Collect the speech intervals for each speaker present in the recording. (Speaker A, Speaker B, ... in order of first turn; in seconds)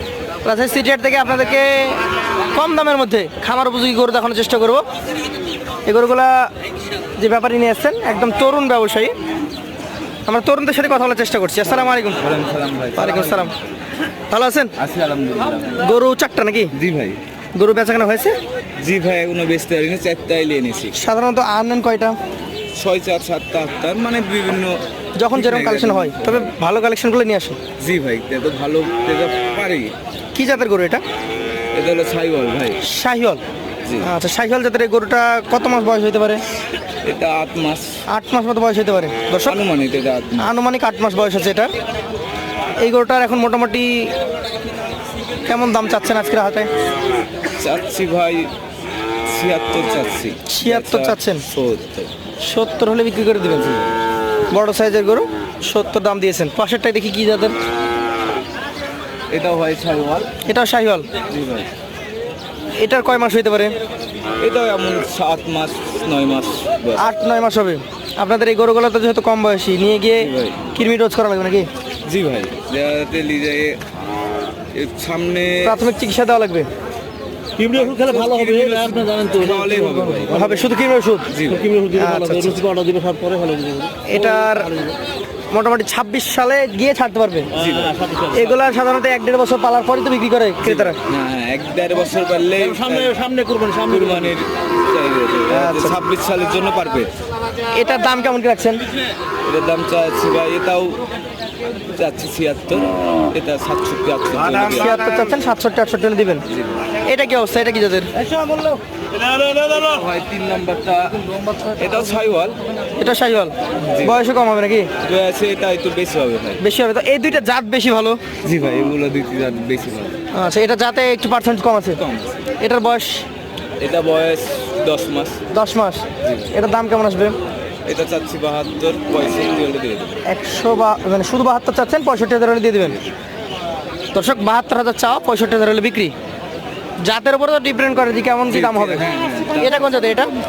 Speaker A: 0.4-2.0, 2.5-4.8, 5.8-6.5, 7.2-9.1, 10.2-12.3, 12.9-13.5, 14.3-14.7, 15.8-16.7, 17.6-18.4, 20.9-22.2, 25.2-27.6, 30.3-31.0, 32.8-33.4, 34.0-36.4, 38.1-39.6, 40.4-41.7, 42.8-44.1, 45.5-46.7, 50.5-51.4, 52.4-53.9, 54.5-57.5, 60.5-61.1, 62.8-63.7, 67.0-71.7, 75.6-76.7, 80.3-81.3, 81.9-82.6, 84.0-84.8, 85.5-87.5, 88.3-91.0, 95.5-96.0, 97.7-98.8, 104.7-106.4, 107.0-108.1, 113.0-114.9, 116.6-118.2, 120.3-122.0, 122.6-123.2, 125.5-127.3, 130.3-133.0, 134.1-136.1, 137.0-140.3
Speaker B: 12.1-13.5, 14.8-15.9, 16.7-17.2, 18.8-21.0, 22.7-26.5, 27.8-29.9, 31.7-32.8, 33.8-34.1, 37.0-38.0, 39.4-40.5, 47.6-48.5, 49.2-52.1, 59.3-60.3, 61.2-61.7, 64.4-67.0, 70.2-70.6, 72.0-73.8, 74.7-75.8, 77.6-80.5, 81.3-81.8, 87.5-88.0, 90.6-93.2, 93.8-97.1, 99.4-101.0, 101.9-105.0, 106.5-106.8, 109.5-112.6, 113.8-114.2, 115.0-116.6, 118.4-120.2, 122.0-122.4, 123.8-125.4, 126.2-126.6, 127.8-130.1, 138.5-139.8
Speaker C: 77.6-80.5, 81.6-85.0, 87.7-88.4, 92.8-94.3, 108.3-108.7